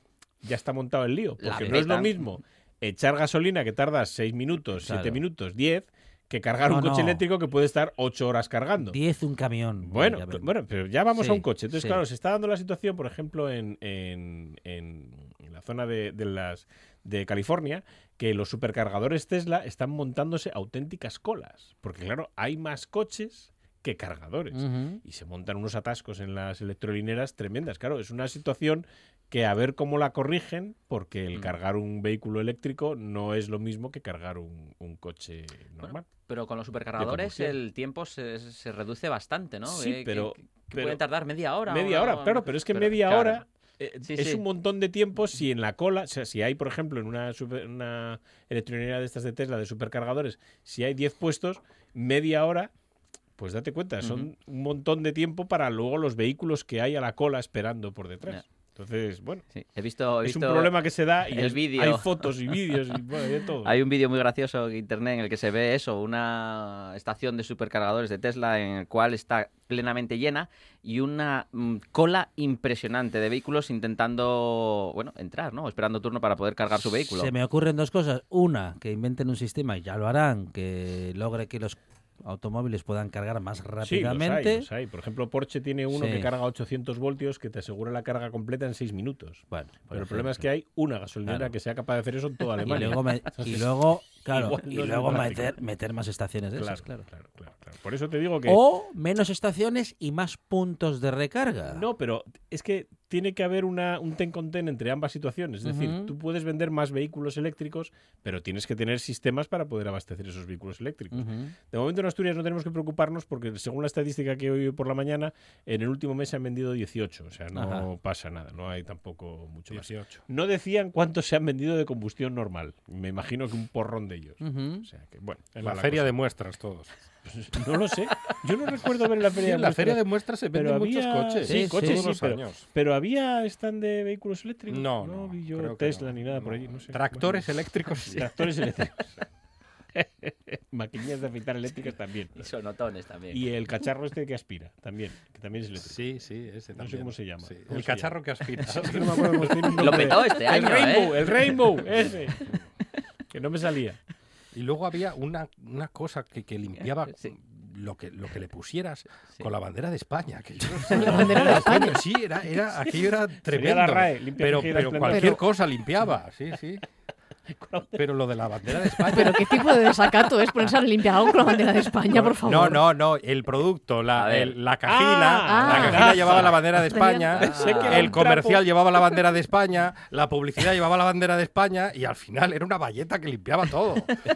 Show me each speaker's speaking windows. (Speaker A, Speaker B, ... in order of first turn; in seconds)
Speaker A: 0.4-9.0, 9.8-36.0, 37.0-37.5, 39.7-41.0, 41.6-52.7, 53.4-59.4, 60.2-63.8, 83.8-95.6, 96.5-98.6, 101.7-126.1, 127.2-137.4, 138.1-139.1, 139.9-142.5, 143.3-146.0, 146.8-152.5, 153.3-154.0, 160.9-161.8, 163.5-165.4, 167.5-168.1, 168.7-170.4, 171.4-172.3, 174.9-178.6
Speaker B: 1.4-2.2, 35.8-43.4, 44.0-44.4, 54.0-54.3, 59.5-62.3, 63.6-77.3, 142.4-143.4, 149.8-151.6, 174.1-174.6, 177.4-178.1
Speaker C: 4.8-5.2, 6.7-7.2, 8.9-10.5, 11.1-12.0, 24.5-25.0, 77.1-84.7, 85.9-86.3, 89.5-90.4, 91.2-91.5, 92.6-97.0, 98.5-101.8, 105.6-106.1, 111.1-111.5, 117.5-117.9, 124.4-124.9, 131.4-132.1
Speaker D: 119.7-120.2, 125.6-126.9, 129.3-132.7, 134.7-138.4, 145.8-150.2, 154.5-166.8, 167.9-169.6, 172.2-184.1
Speaker E: 160.9-162.0, 165.0-165.4, 169.1-172.8, 175.4-176.2, 176.8-178.1